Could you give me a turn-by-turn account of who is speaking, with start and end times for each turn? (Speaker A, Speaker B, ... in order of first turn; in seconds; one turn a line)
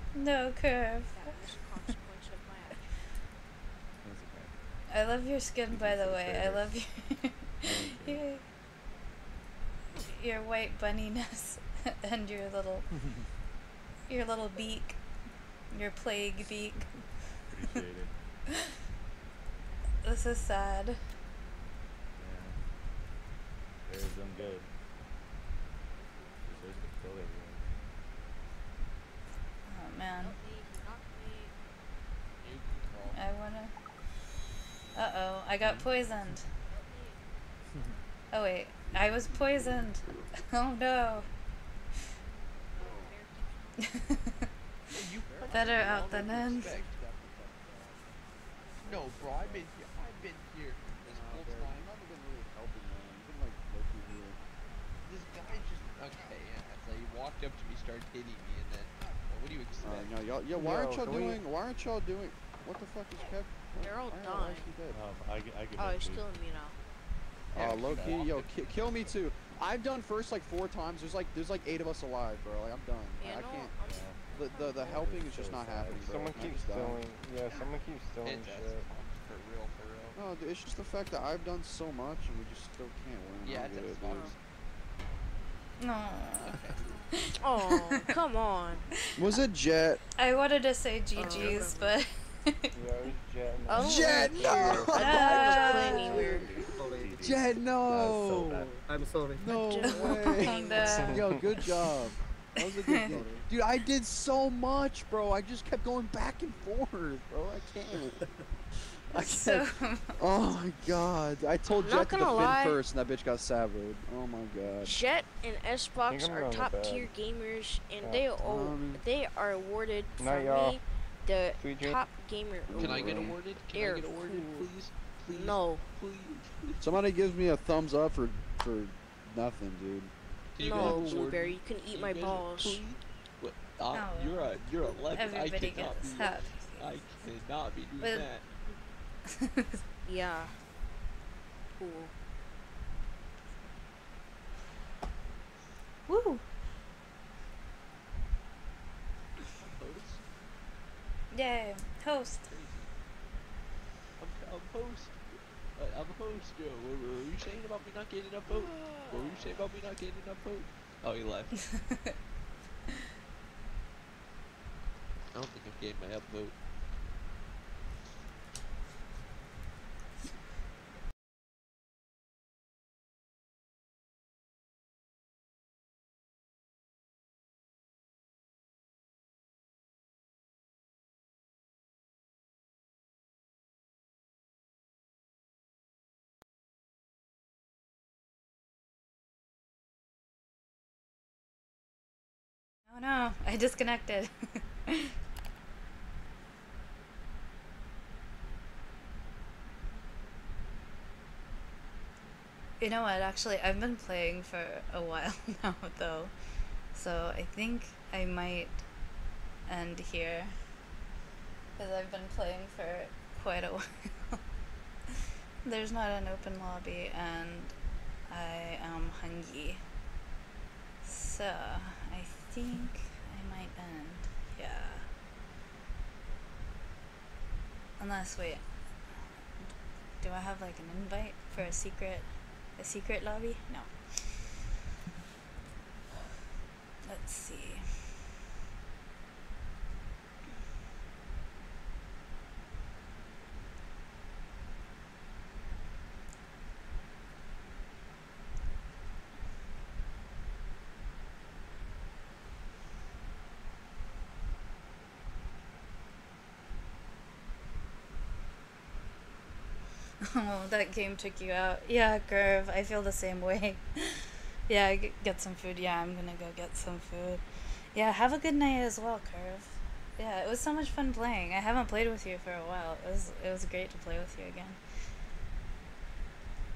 Speaker A: 0.1-1.4
Speaker B: 1.1-3.1
Speaker C: 4.0-4.6
Speaker A: 4.9-8.4
Speaker C: 5.7-6.8
Speaker C: 7.6-8.3
Speaker A: 9.9-13.1
Speaker C: 13.0-13.3
Speaker A: 14.1-15.0
Speaker A: 15.7-17.0
Speaker C: 17.5-18.1
Speaker A: 20.0-21.0
Speaker C: 22.2-22.6
Speaker C: 23.9-24.7
Speaker C: 26.5-27.7
Speaker A: 29.6-30.4
Speaker B: 30.2-31.6
Speaker D: 32.4-33.2
Speaker A: 33.1-33.7
Speaker A: 34.9-36.5
Speaker C: 35.6-35.9
Speaker B: 36.6-37.2
Speaker A: 38.3-41.3
Speaker B: 42.7-44.0
Speaker A: 43.8-44.4
Speaker D: 44.9-47.5
Speaker E: 45.3-46.6
Speaker A: 45.5-46.8
Speaker D: 48.8-51.9
Speaker E: 49.0-49.7
Speaker E: 51.1-54.4
Speaker D: 55.0-60.3
Speaker E: 59.8-64.9
Speaker F: 60.6-61.4
Speaker B: 63.2-64.8
Speaker D: 64.5-64.8
Speaker C: 64.9-66.3
Speaker B: 65.8-66.8
Speaker E: 67.5-73.8
Speaker C: 67.6-68.5
Speaker D: 67.7-68.5
Speaker B: 73.2-75.2
Speaker C: 73.8-74.3
Speaker E: 74.3-77.1
Speaker C: 74.8-76.5
Speaker F: 76.0-78.9
Speaker D: 78.2-80.2
Speaker E: 80.2-84.3
Speaker D: 83.4-84.4
Speaker B: 84.0-84.3
Speaker A: 85.8-88.0
Speaker D: 86.4-87.0
Speaker B: 87.4-88.9
Speaker E: 89.2-90.0
Speaker A: 90.2-92.7
Speaker B: 91.2-92.0
Speaker C: 91.3-91.7
Speaker F: 92.7-95.2
Speaker B: 93.7-96.6
Speaker E: 93.7-96.4
Speaker A: 94.9-96.3
Speaker G: 95.7-97.2
Speaker F: 95.9-96.4
Speaker C: 96.4-98.8
Speaker E: 97.2-98.7
Speaker G: 98.7-99.7
Speaker E: 99.4-108.3
Speaker B: 99.5-101.1
Speaker A: 99.8-101.3
Speaker F: 100.8-101.4
Speaker A: 102.7-103.2
Speaker G: 103.1-103.5
Speaker E: 109.1-115.0
Speaker A: 109.1-110.2
Speaker B: 111.7-112.8
Speaker B: 114.8-124.6
Speaker F: 116.1-117.2
Speaker F: 118.0-118.9
Speaker E: 118.4-119.0
Speaker F: 120.2-120.8
Speaker F: 121.5-122.0
Speaker F: 122.7-123.4
Speaker D: 122.7-126.8
Speaker B: 125.3-125.9
Speaker E: 126.8-130.2
Speaker D: 130.6-138.5
Speaker B: 130.6-132.8
Speaker A: 133.9-134.6
Speaker A: 135.1-137.0
Speaker A: 138.0-138.3
Speaker A: 139.3-139.8
Speaker B: 140.1-140.6
Speaker B: 141.8-142.1
Speaker A: 146.1-146.4
Speaker D: 149.6-150.2
Speaker A: 151.3-152.4
Speaker D: 152.4-152.9
Speaker D: 154.2-161.5
Speaker D: 165.3-166.6
Speaker A: 192.9-194.3
Speaker A: 202.8-206.3
Speaker A: 206.9-208.8
Speaker A: 209.7-210.6
Speaker A: 211.8-214.4
Speaker A: 215.7-217.8
Speaker A: 218.3-219.8
Speaker A: 221.0-225.1
Speaker A: 228.0-228.6
Speaker A: 229.6-234.6
Speaker A: 237.0-238.2
Speaker A: 260.2-274.8